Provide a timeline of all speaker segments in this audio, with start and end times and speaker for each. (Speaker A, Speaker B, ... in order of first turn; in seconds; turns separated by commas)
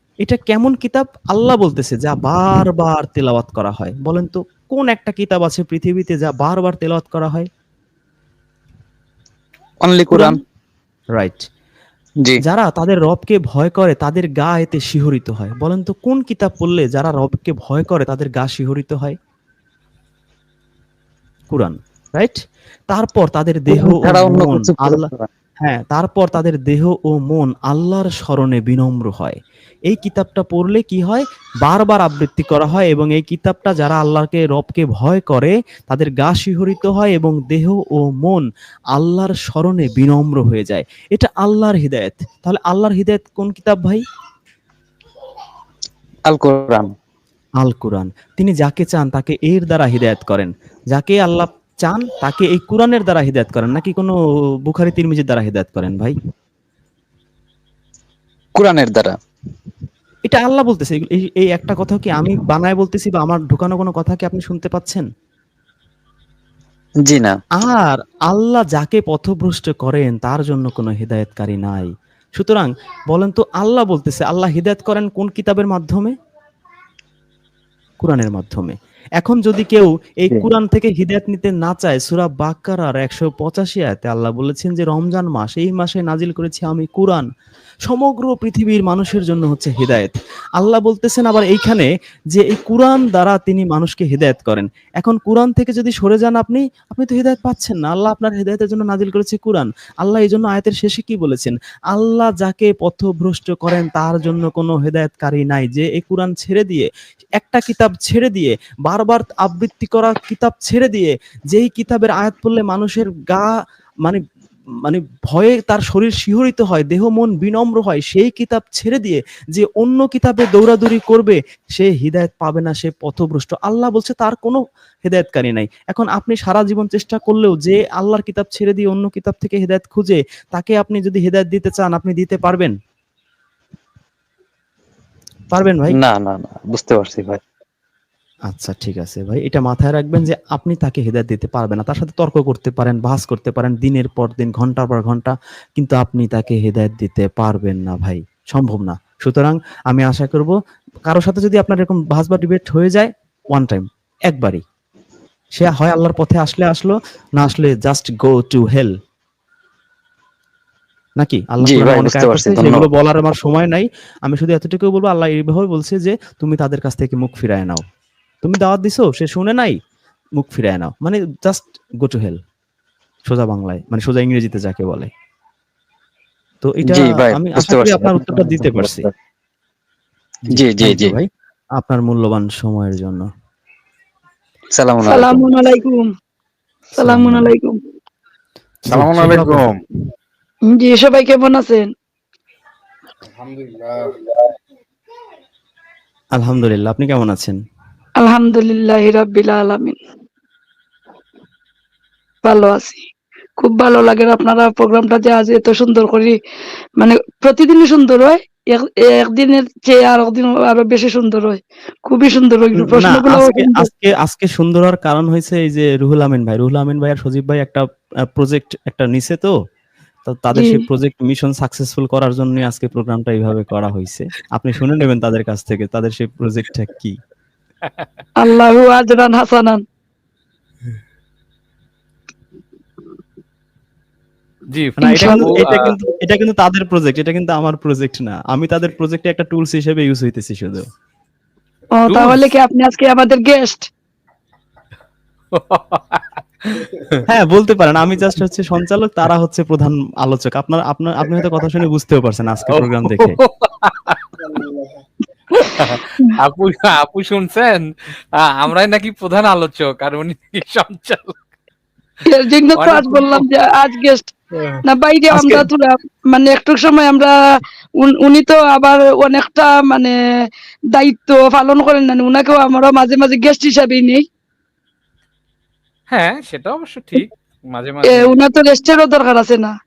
Speaker A: 0.2-7.5, Speaker B: 9.8-10.4, Speaker A: 11.1-11.4, Speaker A: 12.4-19.1, Speaker A: 21.5-22.4, Speaker A: 22.9-25.0, Speaker B: 23.7-25.3, Speaker A: 25.6-38.4, Speaker A: 38.9-44.0, Speaker B: 46.3-46.9, Speaker A: 47.6-56.1, Speaker B: 58.5-59.1, Speaker A: 60.2-65.0, Speaker B: 67.0-67.3, Speaker A: 67.6-76.1, Speaker A: 78.0-87.3, Speaker A: 87.8-106.9, Speaker A: 107.4-113.5, Speaker A: 114.8-132.7, Speaker A: 135.5-136.0, Speaker B: 135.9-137.4, Speaker A: 138.5-150.5, Speaker A: 151.1-154.6, Speaker A: 155.6-158.9, Speaker A: 161.2-167.8, Speaker B: 161.6-162.9, Speaker A: 168.4-169.8, Speaker A: 170.4-172.4, Speaker A: 173.2-175.1, Speaker A: 176.6-179.1, Speaker B: 176.9-179.1, Speaker A: 180.4-183.3, Speaker B: 180.5-181.1, Speaker B: 184.8-185.5, Speaker C: 185.0-186.0, Speaker C: 187.0-187.8, Speaker A: 187.0-187.5, Speaker D: 188.9-189.8, Speaker A: 188.9-189.7, Speaker C: 190.7-191.9, Speaker D: 193.3-194.1, Speaker A: 196.3-197.6, Speaker C: 198.2-199.9, Speaker C: 202.4-203.0, Speaker C: 203.6-206.3, Speaker C: 207.0-213.9, Speaker A: 212.8-217.8, Speaker A: 218.3-219.5, Speaker A: 220.2-227.2, Speaker C: 220.5-220.8, Speaker C: 228.4-229.8, Speaker E: 234.7-235.9, Speaker C: 235.0-235.5, Speaker A: 235.0-240.8, Speaker C: 242.0-243.8, Speaker E: 245.5-247.1, Speaker A: 247.3-253.4, Speaker E: 252.7-254.2, Speaker D: 254.5-255.0, Speaker E: 255.6-261.4, Speaker C: 262.3-264.3, Speaker E: 262.8-263.4, Speaker C: 264.8-267.3, Speaker C: 268.0-270.1, Speaker C: 270.9-274.2, Speaker E: 276.1-278.4, Speaker C: 278.0-279.7